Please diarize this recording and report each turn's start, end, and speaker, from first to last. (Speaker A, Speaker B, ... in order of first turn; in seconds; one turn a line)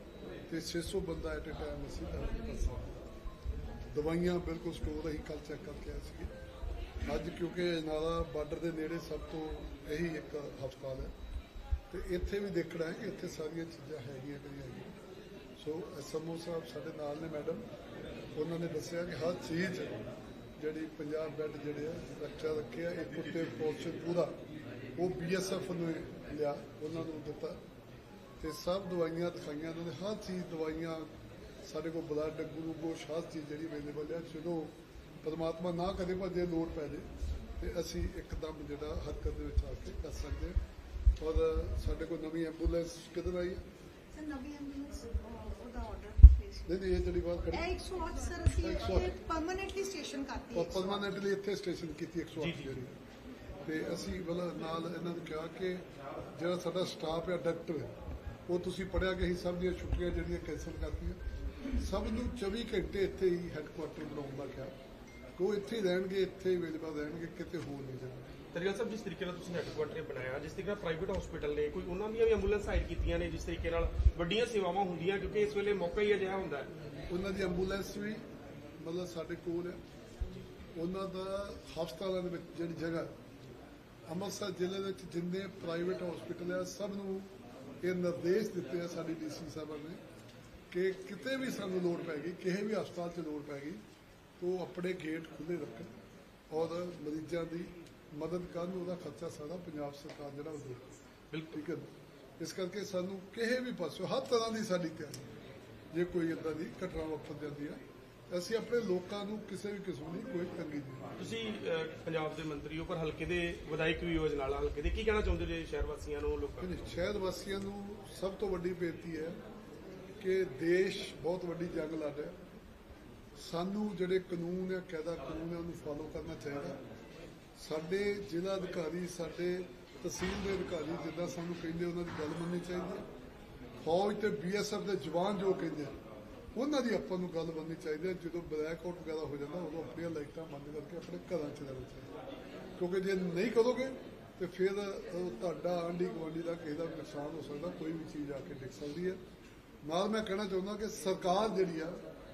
Speaker A: 0.5-3.1
Speaker A: 3.9-6.3
Speaker A: 7.0-11.1
Speaker A: 11.9-14.9
Speaker A: 15.6-17.6
Speaker A: 18.3-20.0
Speaker A: 20.6-24.3
Speaker A: 25.0-27.6
Speaker A: 28.4-31.1
Speaker A: 31.6-37.0
Speaker A: 37.6-40.6
Speaker A: 41.2-43.6
Speaker B: 44.1-46.7
Speaker A: 46.6-47.8
Speaker B: 47.5-51.1
Speaker A: 48.5-49.1
Speaker A: 50.5-53.0
Speaker C: 52.4-52.8
Speaker A: 53.6-57.9
Speaker A: 58.5-61.2
Speaker A: 61.8-64.7
Speaker A: 65.3-68.3
Speaker C: 68.5-76.7
Speaker A: 77.1-78.2
Speaker A: 78.8-79.8
Speaker A: 80.7-83.1
Speaker A: 84.1-90.0
Speaker A: 90.7-93.8
Speaker A: 94.4-95.9
Speaker A: 96.5-100.8
Speaker C: 101.3-101.6
Speaker A: 101.5-105.3
Speaker A: 105.9-111.2
Speaker C: 111.2-116.9
Speaker A: 116.6-119.4
Speaker A: 120.2-122.4
Speaker A: 123.4-126.8
Speaker A: 127.6-133.0
Speaker A: 133.8-135.9
Speaker A: 136.5-142.1
Speaker A: 142.8-149.2
Speaker A: 149.8-152.0